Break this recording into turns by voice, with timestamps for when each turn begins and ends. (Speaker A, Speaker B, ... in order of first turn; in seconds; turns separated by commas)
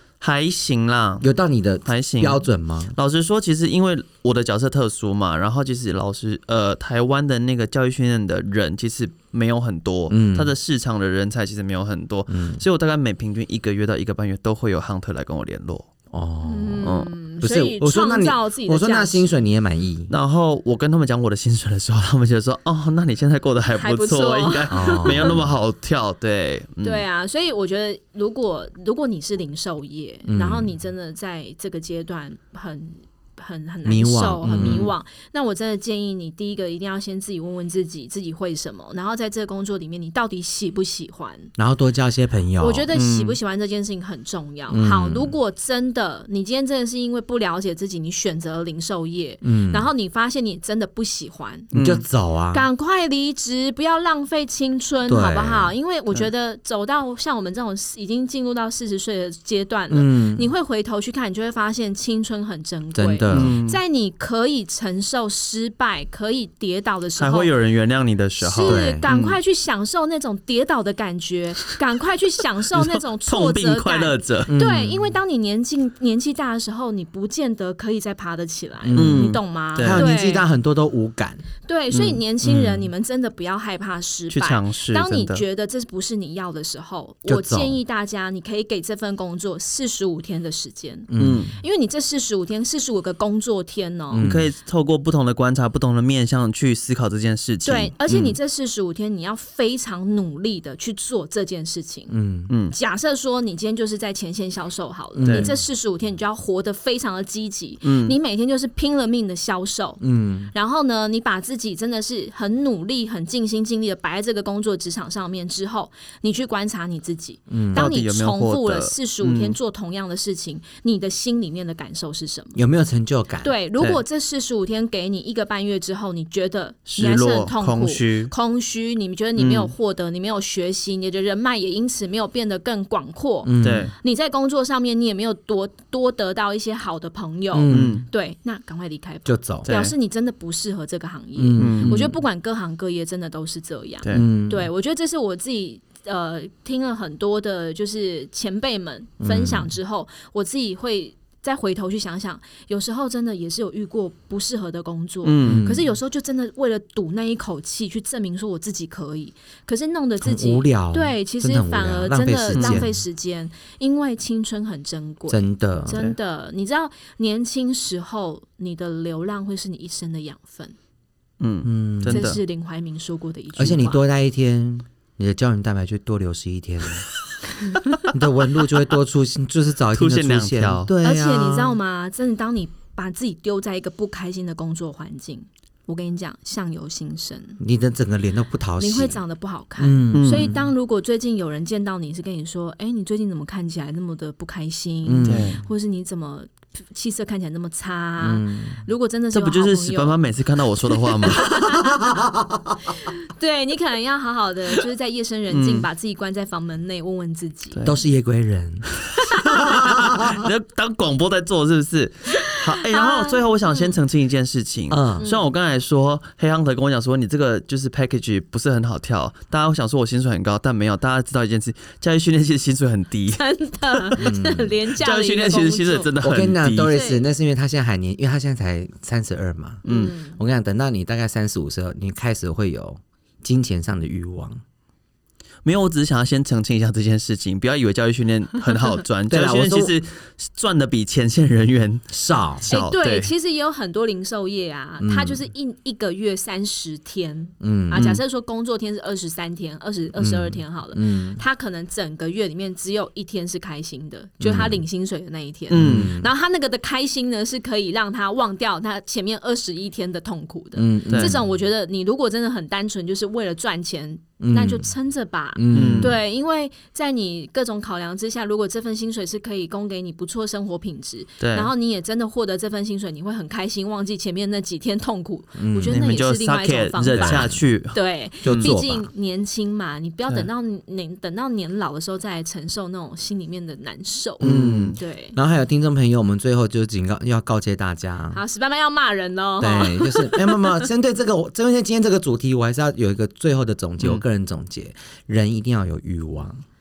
Speaker A: 0.2-1.3, Speaker B: 1.2-2.9, Speaker A: 1.8-15.9, Speaker B: 10.1-10.5, Speaker B: 12.3-12.6, Speaker B: 16.1-20.1, Speaker C: 16.4-19.3, Speaker A: 16.8-17.1, Speaker A: 20.1-27.0, Speaker C: 23.8-25.4, Speaker B: 24.7-25.4, Speaker C: 26.8-41.5, Speaker B: 30.2-30.7, Speaker B: 33.8-34.9, Speaker A: 34.5-34.9, Speaker B: 41.5-42.9, Speaker C: 42.6-51.7, Speaker A: 42.9-43.4, Speaker B: 44.7-45.3, Speaker B: 49.4-49.9, Speaker A: 51.7-52.0, Speaker B: 51.7-52.6, Speaker C: 52.5-67.5, Speaker B: 55.1-55.7, Speaker B: 59.9-60.5, Speaker B: 62.9-63.6, Speaker A: 63.3-63.8, Speaker A: 67.2-69.4, Speaker C: 68.4-80.5, Speaker B: 68.6-69.0, Speaker A: 72.7-74.5, Speaker B: 74.5-75.2, Speaker B: 78.8-81.4, Speaker A: 79.0-80.0, Speaker C: 81.7-94.3, Speaker A: 81.9-82.7, Speaker A: 84.3-85.4, Speaker B: 87.3-87.8, Speaker B: 91.1-91.5, Speaker A: 91.2-91.5, Speaker B: 94.1-94.5, Speaker A: 94.2-98.3, Speaker C: 97.6-102.1, Speaker B: 102.1-102.5, Speaker A: 102.5-102.7, Speaker C: 102.7-122.6, Speaker B: 105.1-105.6, Speaker A: 107.8-108.2, Speaker B: 110.0-110.5, Speaker B: 117.5-117.9, Speaker A: 117.7-119.6, Speaker B: 122.5-124.0, Speaker C: 123.4-170.7, Speaker A: 126.9-128.3, Speaker B: 129.4-129.7, Speaker B: 133.4-133.9, Speaker A: 133.6-133.9, Speaker B: 137.5-138.0, Speaker A: 137.7-138.1, Speaker B: 139.2-139.7, Speaker A: 139.6-139.9, Speaker B: 141.3-142.2, Speaker A: 141.6-142.0, Speaker B: 144.1-144.7, Speaker B: 149.2-149.7, Speaker A: 155.2-155.7, Speaker B: 155.4-155.9, Speaker B: 160.2-162.9, Speaker A: 162.5-162.8, Speaker B: 165.3-166.0, Speaker A: 165.9-166.1, Speaker A: 171.4-172.4, Speaker B: 171.6-172.3, Speaker C: 172.1-174.0, Speaker B: 173.6-177.1, Speaker B: 178.0-181.8, Speaker A: 179.9-180.9, Speaker C: 181.0-187.6, Speaker B: 187.6-189.2, Speaker C: 188.8-200.2, Speaker B: 189.8-190.7, Speaker A: 190.1-190.5, Speaker B: 195.0-195.6, Speaker A: 195.2-195.6, Speaker B: 198.2-198.8, Speaker A: 199.3-201.7, Speaker C: 201.0-202.0, Speaker B: 201.9-202.7, Speaker C: 202.9-207.9, Speaker A: 205.5-205.9, Speaker B: 207.8-208.9, Speaker A: 209.1-223.4, Speaker B: 209.5-210.5, Speaker C: 212.5-213.9, Speaker B: 214.9-215.2, Speaker C: 215.2-215.5, Speaker C: 223.3-226.1, Speaker B: 224.2-224.8, Speaker A: 225.0-226.9, Speaker B: 226.2-234.6, Speaker C: 226.8-227.2, Speaker C: 229.8-230.4, Speaker A: 229.8-230.1, Speaker A: 235.6-242.1, Speaker B: 239.3-239.9, Speaker B: 242.1-242.7, Speaker A: 242.6-243.3, Speaker C: 242.7-285.4, Speaker B: 245.0-245.5, Speaker B: 247.6-248.0, Speaker A: 247.9-248.2, Speaker B: 250.2-251.4, Speaker B: 254.4-254.8, Speaker A: 255.7-256.1, Speaker B: 255.7-256.3, Speaker B: 260.8-261.5, Speaker B: 264.4-264.9, Speaker B: 265.5-266.2, Speaker A: 265.7-266.1, Speaker A: 271.4-271.7, Speaker B: 275.5-276.0, Speaker A: 275.9-278.7, Speaker B: 277.1-277.6, Speaker B: 278.4-279.1, Speaker A: 284.4-285.0, Speaker B: 284.4-288.4, Speaker C: 288.3-290.9, Speaker B: 289.6-296.6